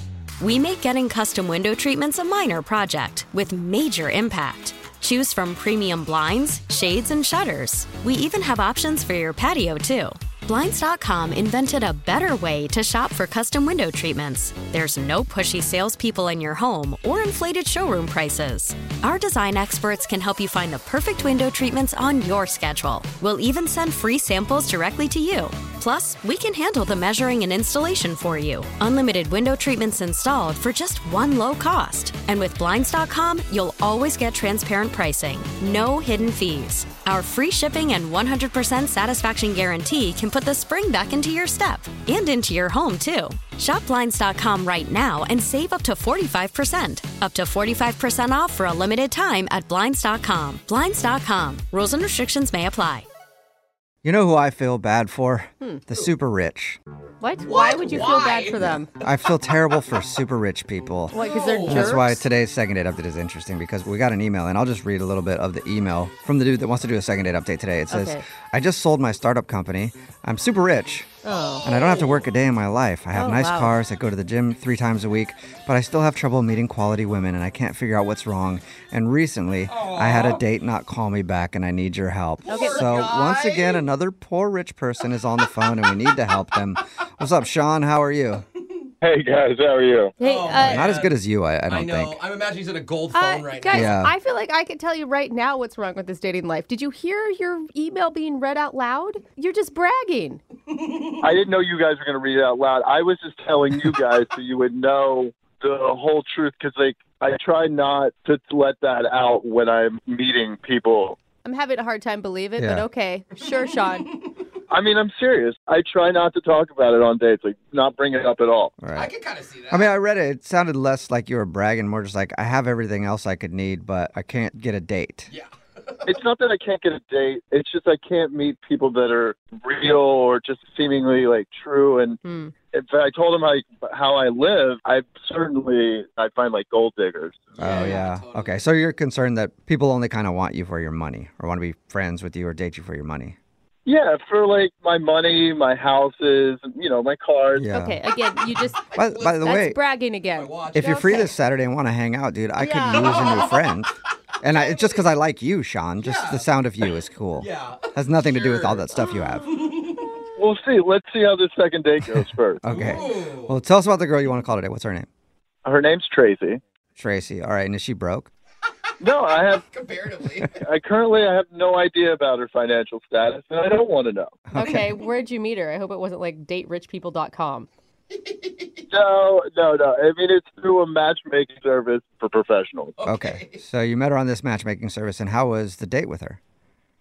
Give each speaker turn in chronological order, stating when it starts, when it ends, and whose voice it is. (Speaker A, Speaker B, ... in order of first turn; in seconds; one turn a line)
Speaker A: 0.4-53.0
Speaker B: 54.0-56.8
Speaker C: 57.2-58.9
Speaker D: 57.4-58.8
Speaker B: 59.0-71.1
Speaker C: 61.1-62.2
Speaker D: 61.1-62.0
Speaker C: 67.9-68.2
Speaker C: 71.2-71.7
Speaker D: 71.2-72.3
Speaker B: 71.6-88.4
Speaker C: 73.1-73.8
Speaker D: 79.7-80.4
Speaker D: 82.4-83.9
Speaker C: 82.5-82.8
Speaker D: 88.6-88.9
Speaker E: 89.0-90.2
Speaker C: 90.2-90.8
Speaker D: 90.2-91.1
Speaker B: 90.6-92.2
Speaker D: 91.7-93.9
Speaker C: 93.1-100.4
Speaker B: 93.7-94.1
Speaker D: 100.7-101.3
Speaker E: 101.2-111.2
Speaker C: 111.4-114.1
Speaker B: 112.6-112.8
Speaker D: 113.5-114.3
Speaker E: 114.7-118.8
Speaker B: 118.8-119.1
Speaker D: 118.9-119.9
Speaker B: 119.7-125.3
Speaker D: 125.3-126.2
Speaker E: 126.0-132.2
Speaker C: 132.2-132.5
Speaker E: 132.7-137.5
Speaker D: 137.5-138.7
Speaker B: 137.6-143.4
Speaker C: 137.6-138.0
Speaker E: 143.8-147.7
Speaker B: 147.5-148.0
Speaker C: 147.7-148.8
Speaker D: 148.4-149.6
Speaker B: 148.9-149.8
Speaker C: 149.4-151.3
Speaker D: 150.3-151.3
Speaker B: 150.7-159.5
Speaker C: 152.6-153.6
Speaker D: 152.9-153.7
Speaker D: 154.4-155.1
Speaker D: 156.0-158.9
Speaker D: 159.4-160.2
Speaker E: 160.3-162.9
Speaker B: 162.6-165.1
Speaker D: 162.6-163.6
Speaker E: 165.6-166.6
Speaker B: 167.0-168.3
Speaker E: 169.0-169.6
Speaker D: 169.7-170.6
Speaker E: 170.6-174.4
Speaker B: 174.5-174.9
Speaker C: 174.5-177.7
Speaker D: 178.1-178.9
Speaker E: 178.9-182.9
Speaker D: 183.0-183.6
Speaker B: 183.0-186.4